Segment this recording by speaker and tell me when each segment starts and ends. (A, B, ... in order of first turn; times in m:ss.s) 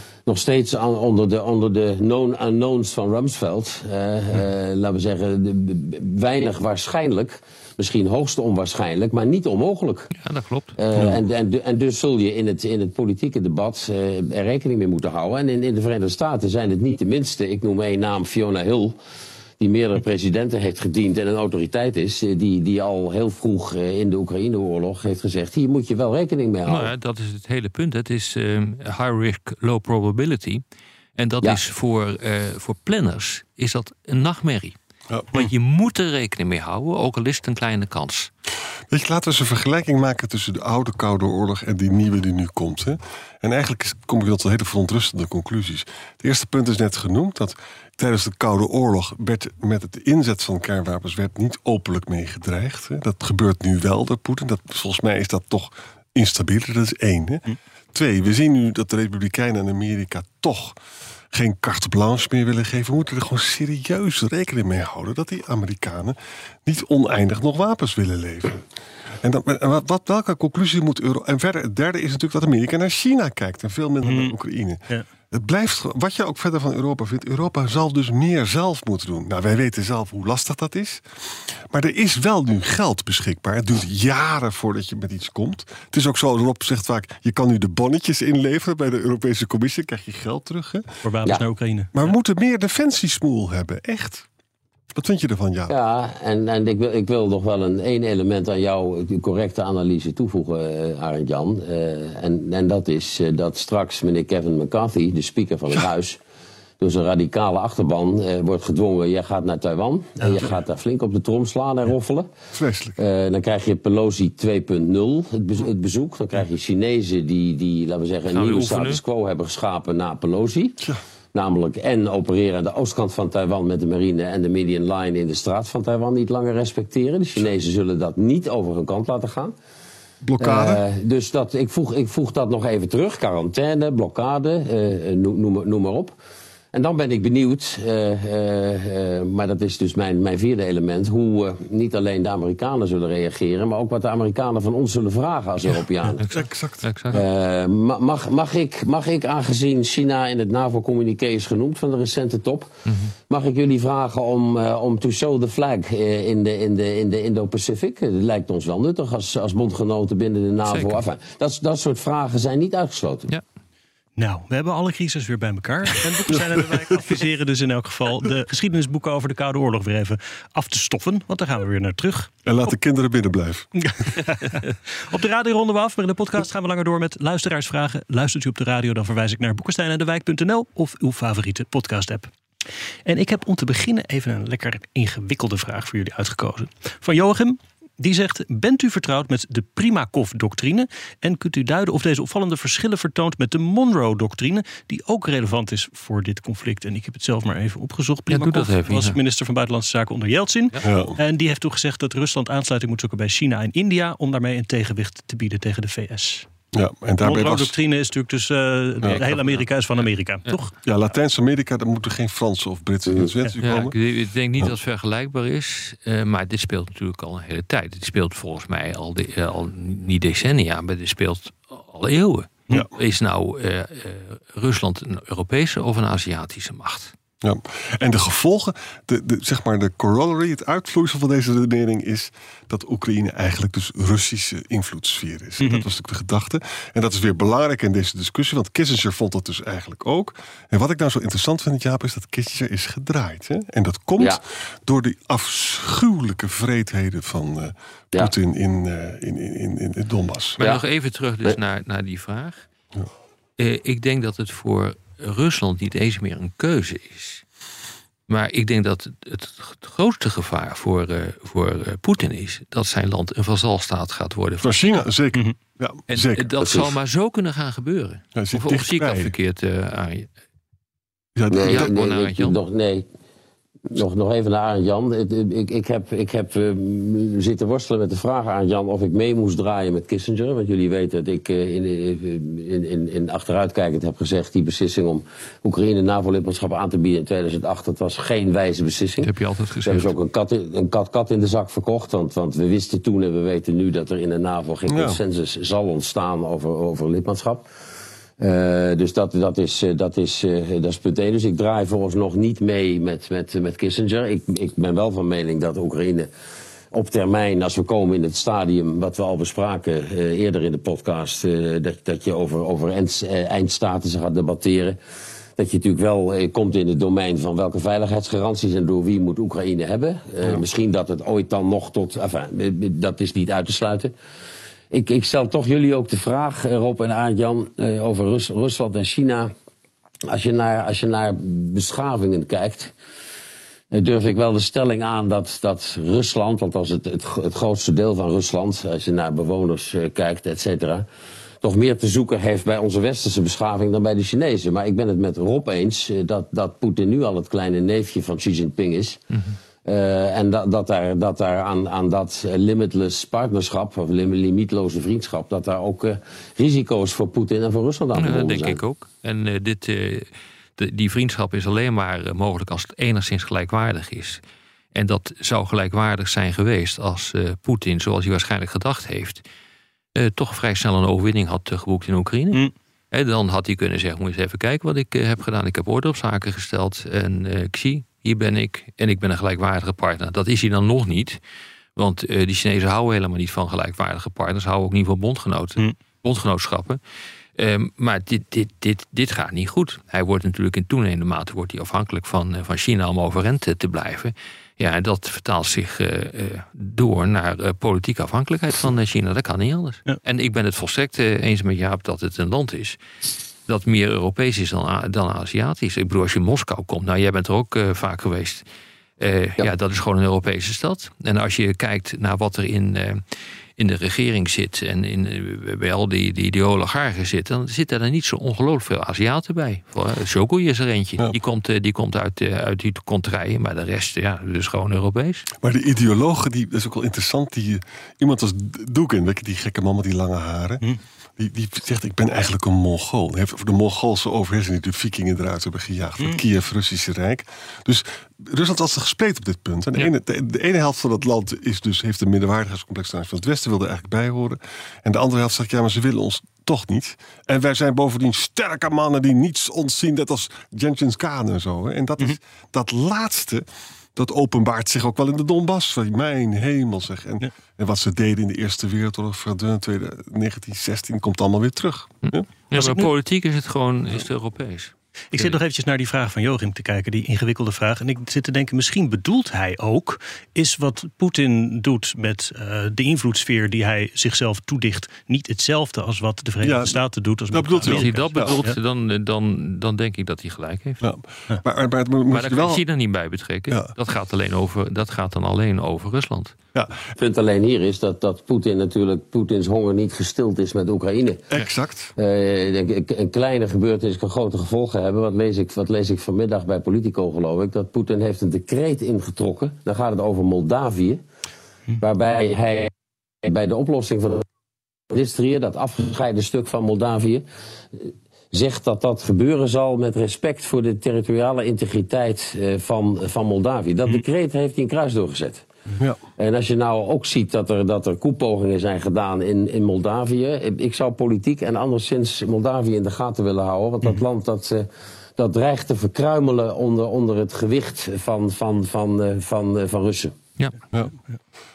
0:00.2-0:10.1 A
0:10.2-0:10.7 B
0:10.8-0:19.0 A
0:19.6-0:26.9 A
0:26.7-0:30.6 B
0:31.2-0:34.8 B
0:35.3-0:38.3 B
0:38.9-1:00.8 C
1:01.3-1:08.7 C
1:09.2-1:30.8 C
1:14.0-1:14.3 D
1:31.0-1:31.9 D
1:31.9-1:34.3 C
1:34.9-1:35.7 C
1:35.7-1:46.2 A
1:46.8-1:52.3 A
1:52.5-1:53.0 C
1:53.0-2:00.8 A
1:58.3-1:59.0 B
2:01.3-2:09.5 A
2:10.2-2:10.8 C
2:10.4-2:16.2 A
2:16.7-2:26.2 A
2:26.2-2:27.2 B
2:26.3-2:26.9 C
2:27.1-2:32.7 A
2:32.9-2:33.1 B
2:33.3-2:43.3 A
2:40.7-2:41.0 B
2:44.2-2:52.3 D
2:46.3-2:46.9 C
2:52.4-2:53.8 C
2:53.8-3:02.3 D
3:03.0-3:26.5 D
3:18.3-3:19.2 B
3:20.8-3:21.2 C
3:26.7-3:27.8 C
3:27.2-3:30.8 D
3:29.0-3:30.6 B
3:30.8-3:34.0 C
3:33.6-3:47.1 B
3:47.4-4:10.6 C
3:55.6-3:55.8 D
4:10.6-4:12.6 B
4:13.6-4:17.4 B
4:18.3-4:25.0 B
4:24.6-4:26.5 C
4:26.1-4:30.3 B
4:26.6-4:26.9 A
4:28.3-4:29.3 C
4:31.4-4:31.9 C
4:31.5-4:33.0 A
4:31.6-4:32.6 B
4:33.9-4:49.3 A
4:49.2-4:50.1 B
4:49.8-4:57.7 A
4:54.9-4:55.2 C
4:58.4-5:06.3 A
5:06.9-5:15.0 A
5:15.6-5:24.1 A
5:24.9-5:29.5 A
5:30.3-5:32.9 A
5:33.9-5:41.0 A
5:41.6-5:49.2 A
5:49.3-5:49.6 B
5:49.8-5:58.8 A
5:58.1-6:04.4 B
6:04.9-6:09.4 B
6:10.1-6:21.4 B
6:22.0-6:27.0 B
6:27.6-6:43.0 B
6:43.7-6:48.6 B
6:49.2-6:53.2 B
6:53.8-7:05.5 B
7:05.6-7:10.8 C
7:11.4-7:42.5 C
7:42.3-7:45.6 B
7:42.7-7:43.1 D
7:45.3-7:58.8 D
7:56.6-7:58.6 C
7:57.8-8:01.0 B
8:01.0-8:02.8 C
8:02.3-8:06.5 B
8:07.2-8:11.5 A
8:11.5-8:12.1 C
8:12.2-8:21.2 A
8:22.0-8:22.9 A
8:23.4-8:24.4 A
8:25.1-8:35.6 A
8:36.4-8:50.3 A